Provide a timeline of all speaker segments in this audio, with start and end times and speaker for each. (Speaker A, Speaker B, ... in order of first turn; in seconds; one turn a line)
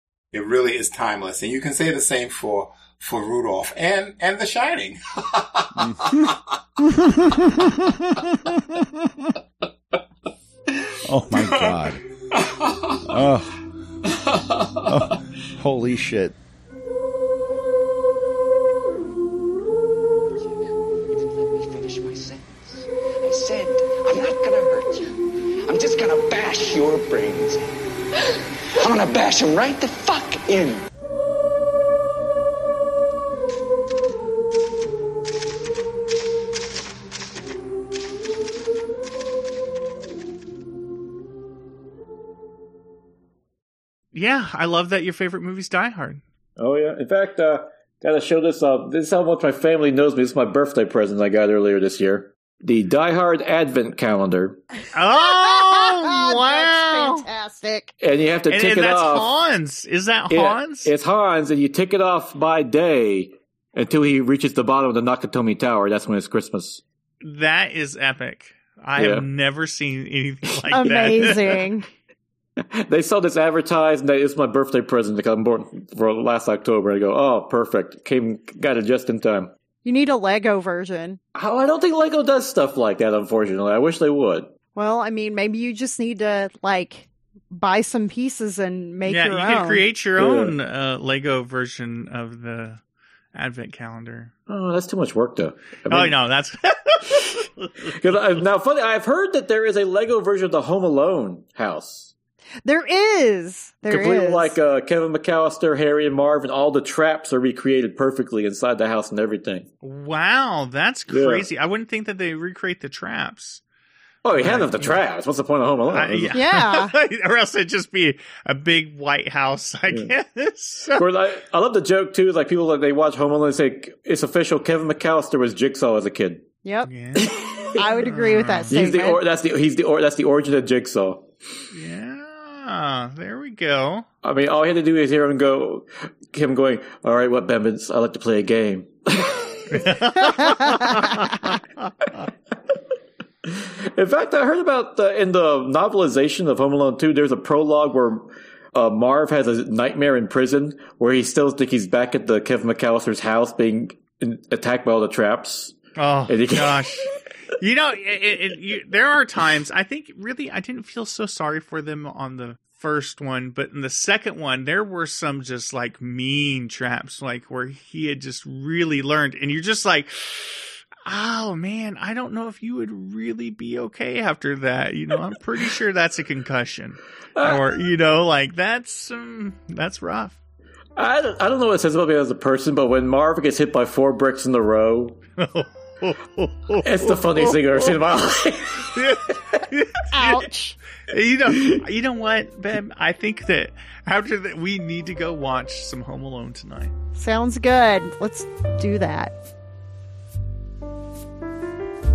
Speaker A: 0.3-6.4
Speaker B: 6.8-9.3
Speaker A: 10.7-11.8
Speaker B: 11.1-12.0
Speaker A: 12.3-13.2
Speaker B: 13.0-13.6
Speaker A: 14.1-15.1
Speaker B: 14.8-16.3
Speaker C: 21.1-27.7
Speaker C: 28.8-30.8
Speaker D: 44.1-46.2
Speaker E: 46.6-54.6
Speaker D: 54.9-57.3
Speaker F: 55.3-57.9
Speaker E: 58.0-59.3
Speaker D: 58.5-60.9
Speaker E: 60.3-66.8
Speaker D: 67.2-71.6
Speaker E: 69.0-69.3
Speaker F: 70.7-71.9
Speaker E: 72.7-79.5
Speaker F: 79.8-81.2
Speaker E: 81.3-84.5
Speaker F: 84.7-89.9
Speaker D: 89.0-92.8
Speaker E: 90.2-90.5
Speaker D: 93.3-94.3
Speaker E: 94.5-96.2
Speaker D: 95.9-97.9
Speaker E: 97.9-102.1
Speaker F: 102.6-104.6
Speaker E: 103.9-109.7
Speaker D: 109.8-113.6
Speaker E: 111.1-111.5
Speaker E: 114.2-116.4
Speaker D: 114.3-115.0
Speaker D: 115.9-121.0
Speaker F: 116.3-116.9
Speaker E: 120.9-126.4
Speaker F: 126.6-126.9
Speaker D: 126.9-127.3
Speaker E: 127.3-127.7
Speaker F: 127.7-129.2
Speaker D: 128.0-128.8
Speaker E: 128.7-131.2
Speaker D: 131.7-134.1
Speaker E: 134.2-139.9
Speaker D: 139.7-141.5
Speaker E: 143.4-155.8
Speaker D: 155.9-157.1
Speaker E: 156.3-156.9
Speaker D: 157.6-180.4
Speaker E: 177.4-177.6
Speaker E: 180.9-185.2
Speaker D: 185.4-187.9
Speaker E: 186.8-188.9
Speaker D: 188.9-190.5
Speaker F: 190.1-190.8
Speaker D: 191.1-196.9
Speaker F: 197.2-199.3